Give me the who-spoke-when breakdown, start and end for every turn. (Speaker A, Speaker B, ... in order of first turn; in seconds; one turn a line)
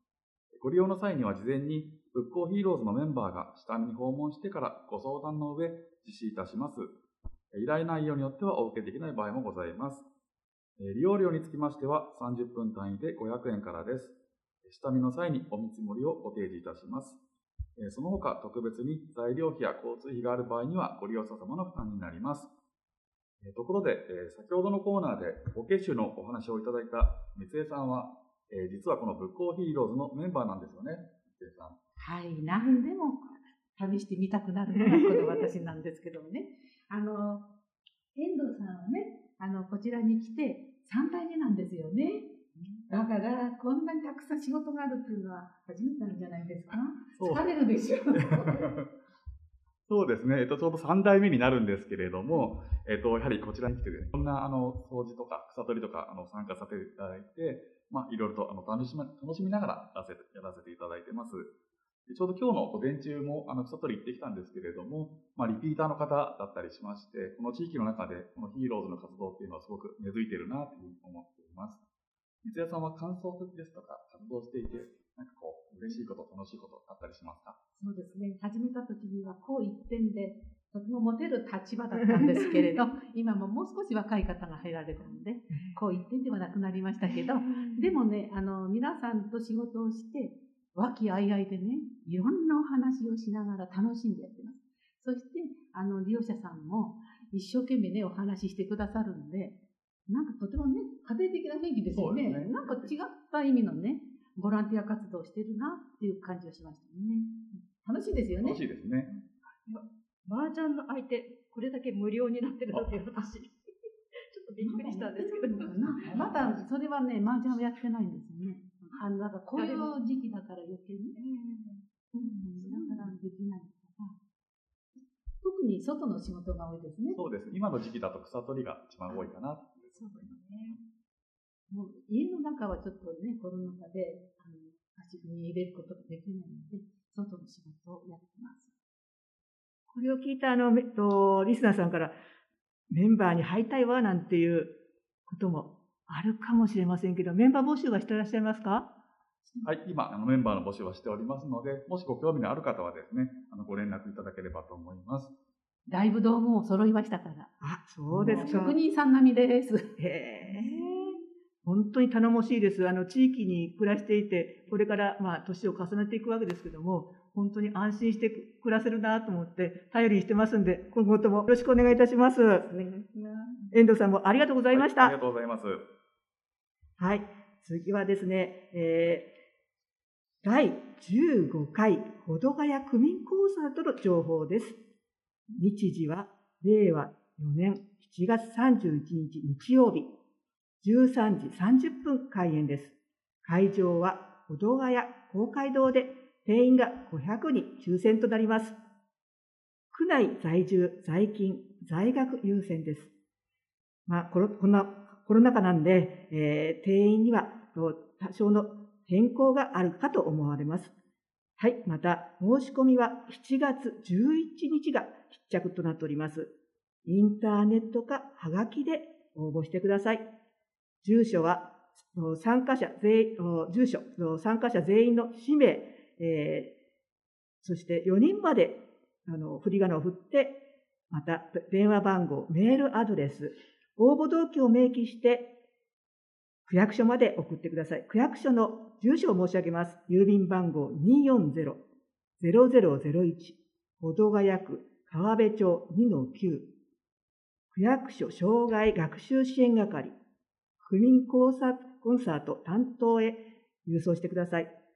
Speaker A: 0.6-6.9
Speaker A: 7.5-10.0
Speaker A: 10.8-17.2
Speaker A: 17.8-22.5
Speaker A: 23.4-31.8
Speaker B: 32.0-37.5
Speaker C: 34.9-35.4
Speaker B: 38.1-48.6
Speaker A: 47.1-47.5
Speaker A: 48.2-48.9
Speaker A: 49.9-61.5
Speaker A: 62.0-71.8
Speaker A: 72.4-77.6
Speaker B: 77.8-108.6
Speaker C: 82.2-82.5
Speaker C: 85.5-85.8
Speaker A: 101.9-102.9
Speaker A: 108.4-109.1
Speaker D: 109.1-113.5
Speaker D: 114.1-116.4
Speaker B: 114.6-121.2
Speaker D: 119.5-120.0
Speaker D: 121.1-123.2
Speaker B: 122.1-124.2
Speaker B: 124.9-127.2
Speaker A: 127.1-130.8
Speaker D: 129.9-130.8
Speaker B: 131.7-138.7
Speaker C: 139.9-142.1
Speaker C: 142.9-144.7
Speaker C: 145.2-148.9
Speaker A: 149.6-155.3
Speaker B: 155.9-157.5
Speaker C: 157.6-158.8
Speaker A: 158.1-158.4
Speaker B: 158.2-159.9
Speaker C: 160.0-172.7
Speaker C: 173.7-175.2
Speaker A: 174.7-175.8
Speaker C: 177.0-179.3
Speaker C: 180.4-184.8
Speaker C: 185.5-190.1
Speaker C: 190.8-198.8
Speaker C: 199.9-203.1
Speaker C: 204.1-210.9
Speaker C: 211.6-216.5
Speaker C: 217.1-220.3
Speaker C: 221.0-226.7
Speaker C: 227.6-230.6
Speaker C: 231.1-235.5
Speaker C: 236.7-241.8
Speaker C: 242.4-246.7
Speaker C: 247.7-250.2
Speaker C: 250.8-254.7